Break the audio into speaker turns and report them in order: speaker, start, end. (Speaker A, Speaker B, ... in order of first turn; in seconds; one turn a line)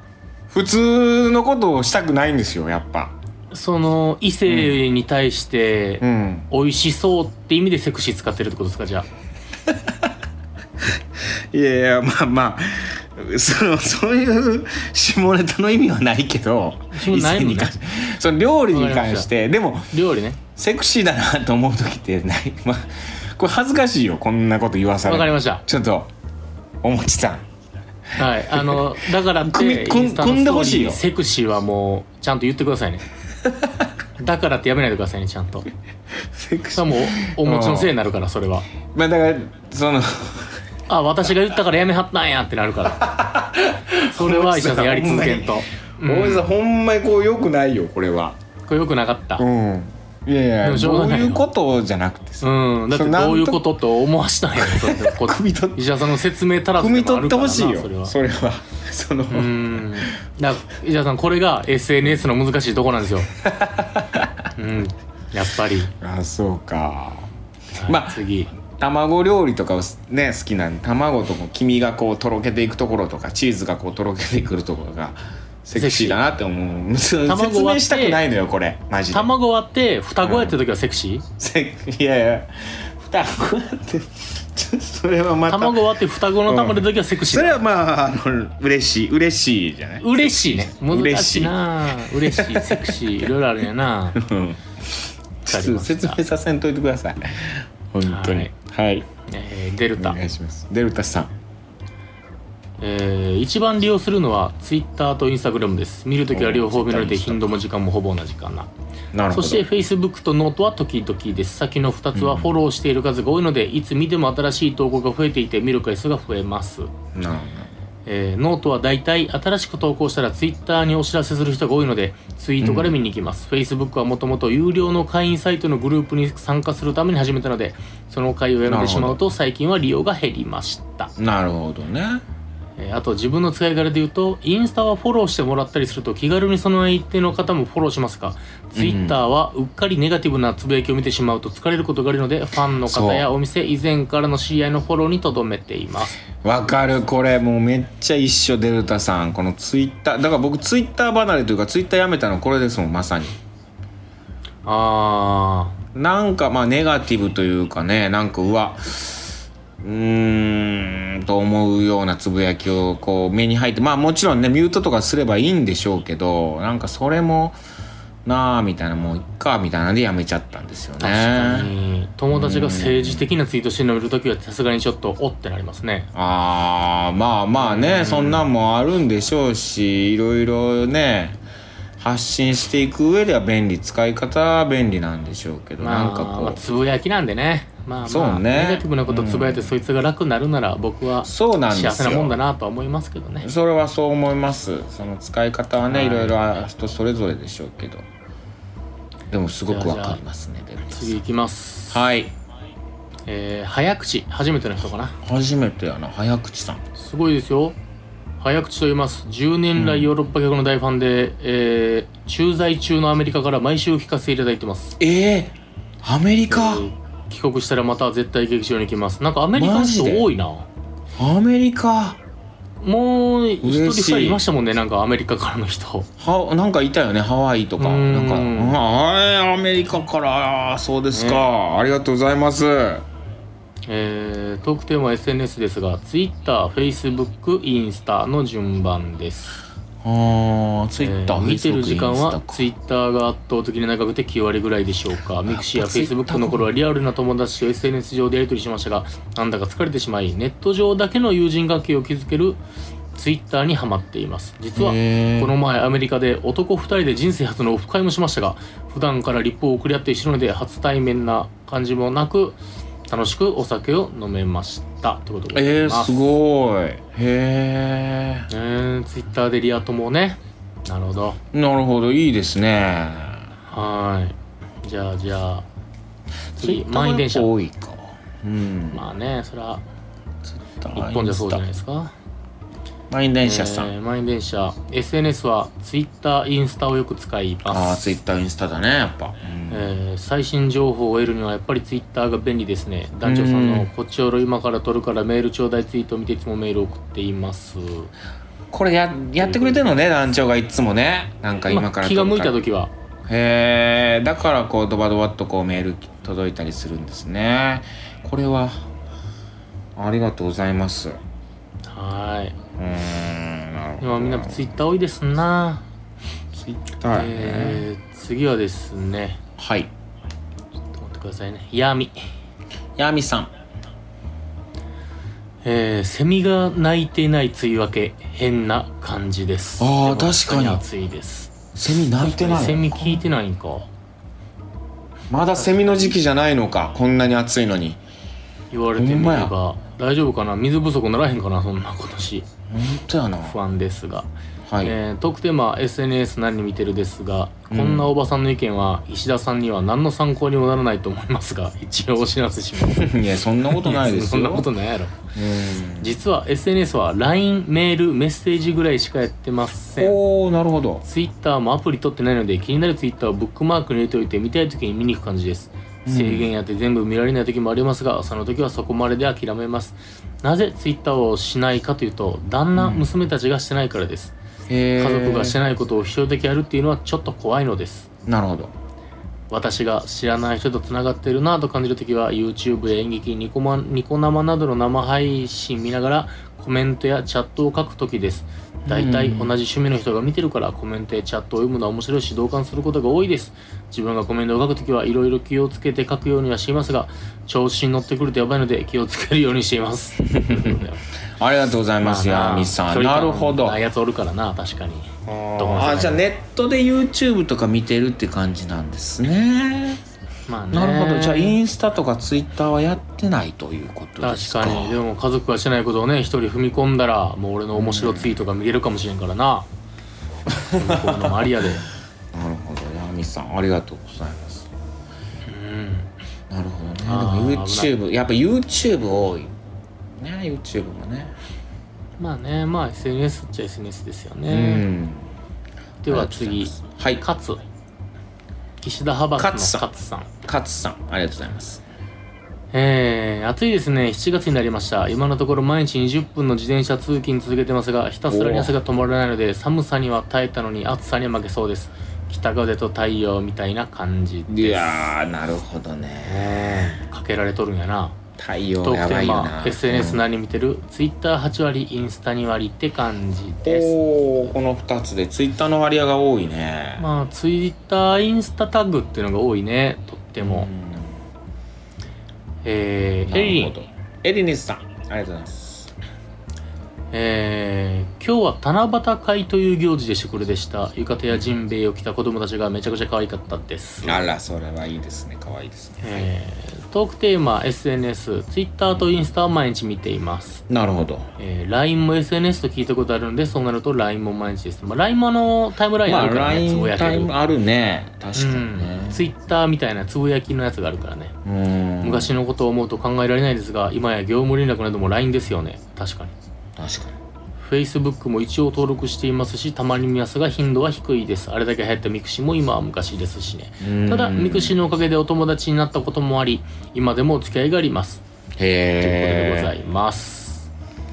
Speaker A: 0.5-3.1
Speaker B: 3.5-9.1
Speaker A: 4.5-4.8
Speaker A: 6.0-6.5
Speaker A: 11.5-19.9
Speaker B: 16.9-17.7
Speaker B: 18.7-19.3
Speaker B: 19.9-20.4
Speaker A: 20.5-26.1
Speaker B: 25.0-25.6
Speaker A: 26.8-27.4
Speaker B: 28.2-33.0
Speaker A: 28.2-31.0
Speaker B: 34.2-35.7
Speaker A: 36.3-37.9
Speaker B: 36.7-38.7
Speaker A: 38.9-40.6
Speaker B: 40.9-43.1
Speaker A: 43.0-48.4
Speaker B: 44.1-46.5
Speaker B: 48.7-49.4
Speaker A: 49.4-53.6
Speaker B: 50.6-51.5
Speaker B: 52.4-58.1
Speaker A: 54.6-55.9
Speaker A: 56.8-60.1
Speaker B: 59.3-63.3
Speaker A: 63.4-64.4
Speaker B: 64.5-65.9
Speaker A: 66.0-67.3
Speaker B: 67.7-68.5
Speaker A: 67.8-79.3
Speaker B: 75.7-76.2
Speaker B: 77.2-78.2
Speaker B: 79.1-81.2
Speaker A: 80.2-80.6
Speaker A: 81.4-85.8
Speaker B: 85.5-87.6
Speaker A: 86.5-93.2
Speaker B: 90.0-94.2
Speaker A: 94.2-99.1
Speaker B: 95.5-96.2
Speaker B: 98.0-98.5
Speaker B: 99.3-100.2
Speaker A: 100.0-101.3
Speaker B: 102.8-108.7
Speaker A: 106.3-107.6
Speaker A: 109.1-109.7
Speaker B: 109.3-116.9
Speaker A: 112.1-112.5
Speaker A: 117.1-117.7
Speaker B: 118.0-131.1
Speaker A: 122.6-123.0
Speaker A: 128.7-129.2
Speaker A: 131.2-132.2
Speaker B: 132.8-146.2
Speaker A: 138.7-139.2
Speaker A: 142.8-143.3
Speaker A: 146.4-153.4
Speaker B: 154.6-155.8
Speaker A: 155.9-167.6
Speaker A: 168.2-171.7
Speaker B: 171.0-176.1
Speaker A: 172.3-173.2
Speaker A: 176.1-181.4
Speaker B: 177.6-178.4
Speaker A: 182.0-186.6
Speaker B: 185.8-193.5
Speaker A: 188.0-189.7
Speaker A: 191.2-192.4
Speaker A: 193.4-198.0
Speaker B: 195.8-196.3
Speaker A: 199.3-201.2
Speaker B: 199.7-200.2
Speaker B: 200.9-202.0
Speaker A: 201.9-202.3
Speaker B: 203.3-205.2
Speaker A: 205.2-206.8
Speaker B: 206.9-207.8
Speaker B: 208.4-215.0
Speaker A: 209.8-210.1
Speaker A: 215.0-216.8
Speaker B: 216.5-220.7
Speaker A: 219.5-220.3
Speaker A: 221.2-222.2
Speaker B: 222.8-226.1
Speaker A: 223.6-224.4
Speaker A: 226.2-233.0
Speaker B: 227.8-228.8
Speaker B: 231.1-231.4
Speaker B: 233.9-239.6
Speaker A: 240.0-242.7
Speaker B: 241.0-252.6
Speaker A: 245.4-246.7
Speaker B: 253.1-266.3
Speaker A: 254.8-255.5
Speaker A: 265.5-268.5
Speaker B: 268.5-271.4
Speaker A: 271.5-273.5
Speaker B: 273.7-275.6
Speaker A: 276.5-279.1
Speaker B: 276.6-277.5
Speaker B: 278.9-279.8
Speaker A: 280.4-281.6
Speaker B: 280.9-282.1
Speaker A: 283.1-283.9
Speaker B: 283.4-288.1
Speaker A: 287.7-289.9
Speaker B: 289.7-298.1
Speaker A: 293.2-293.9
Speaker A: 298.7-302.6
Speaker B: 299.4-299.9
Speaker B: 301.6-302.9
Speaker A: 303.3-308.8
Speaker A: 309.9-311.2
Speaker B: 311.9-312.6
Speaker A: 312.8-314.7
Speaker B: 314.0-315.8
Speaker A: 316.5-317.9
Speaker B: 317.1-319.4
Speaker A: 319.6-319.9
Speaker B: 320.9-322.2
Speaker A: 323.0-323.5
Speaker B: 325.6-331.5
Speaker A: 329.8-330.8
Speaker A: 331.7-333.2
Speaker B: 332.2-333.9
Speaker A: 335.3-338.0
Speaker B: 335.6-336.2
Speaker B: 338.7-342.5
Speaker A: 338.9-339.5
Speaker A: 342.7-343.6
Speaker B: 343.4-344.3
Speaker A: 344.7-344.9
Speaker B: 344.8-353.1
Speaker A: 347.7-348.1
Speaker A: 352.9-354.7
Speaker B: 353.7-355.1
Speaker A: 355.3-356.2
Speaker B: 356.0-360.2
Speaker A: 359.9-361.0
Speaker B: 361.0-374.3
Speaker A: 366.0-366.5
Speaker A: 372.8-373.1
Speaker A: 374.7-375.6
Speaker B: 374.9-378.1
Speaker A: 378.2-378.7
Speaker B: 379.5-401.0
Speaker A: 388.9-389.5
Speaker A: 400.3-400.8
Speaker A: 401.4-403.8
Speaker B: 402.0-406.2
Speaker A: 405.2-410.0
Speaker B: 410.5-411.6
Speaker A: 410.7-415.0
Speaker B: 414.2-419.7
Speaker A: 417.7-418.4
Speaker A: 420.5-421.7
Speaker B: 420.7-421.8
Speaker A: 422.3-424.7
Speaker B: 425.5-426.1
Speaker A: 426.5-429.5
Speaker B: 427.0-427.9
Speaker A: 430.2-431.3
Speaker B: 432.2-434.9
Speaker A: 434.5-435.3
Speaker B: 436.0-437.6
Speaker A: 436.1-437.2
Speaker B: 438.8-440.3
Speaker A: 439.4-439.9
Speaker A: 440.4-441.8
Speaker B: 442.7-455.0
Speaker A: 448.3-448.8
Speaker A: 454.5-457.0
Speaker B: 456.2-458.1
Speaker A: 458.4-460.2
Speaker B: 458.8-464.5
Speaker A: 463.6-467.1
Speaker B: 467.0-470.7
Speaker A: 470.4-471.2
Speaker B: 472.6-473.7
Speaker A: 473.3-475.9
Speaker B: 477.1-484.2
Speaker A: 484.0-486.3
Speaker B: 486.0-490.6
Speaker A: 490.7-491.3
Speaker B: 491.4-497.3
Speaker A: 496.0-499.3
Speaker B: 498.4-501.3
Speaker A: 501.4-502.3
Speaker B: 502.0-506.3
Speaker A: 506.8-507.1
Speaker B: 507.6-518.2
Speaker A: 513.8-514.8
Speaker A: 518.6-519.7
Speaker B: 519.0-520.7